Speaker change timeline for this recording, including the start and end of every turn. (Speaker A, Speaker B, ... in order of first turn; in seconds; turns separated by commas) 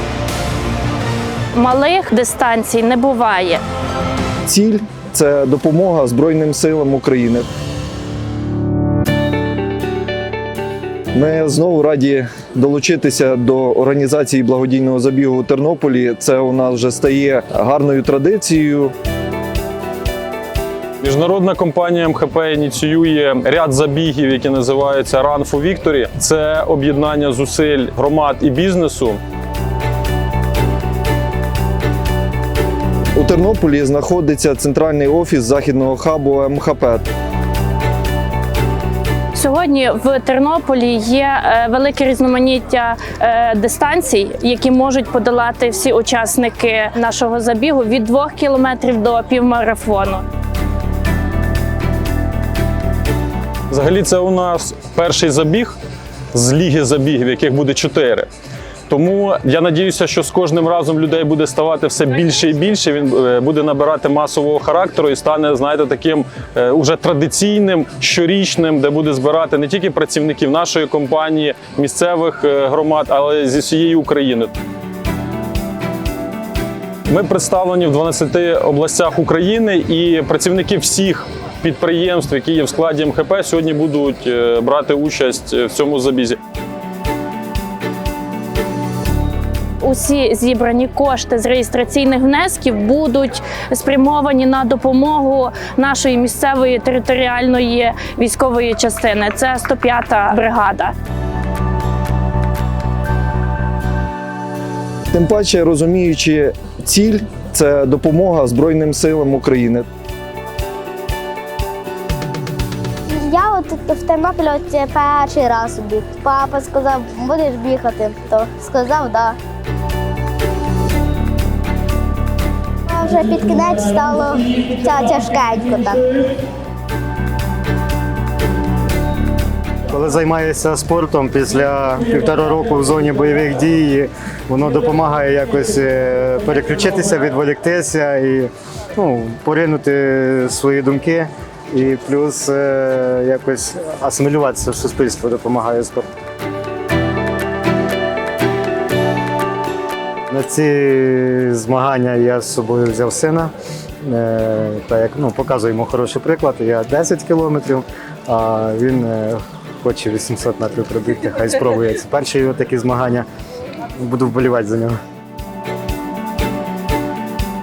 Speaker A: 1.6-3.6, Speaker B: 4.5-7.5, Speaker B: 11.1-18.9, Speaker C: 21.0-29.2, Speaker B: 33.1-37.1, Speaker A: 39.4-50.2, Speaker C: 53.7-55.8, Speaker C: 56.3-58.3, Speaker C: 58.9-74.5, Speaker C: 77.1-86.4, Speaker A: 89.8-100.9, Speaker B: 105.1-109.9, Speaker D: 113.1-119.4, Speaker D: 122.9-126.1, Speaker E: 129.9-146.1, Speaker E: 150.3-153.5, Speaker E: 154.0-163.3, Speaker E: 164.0-165.0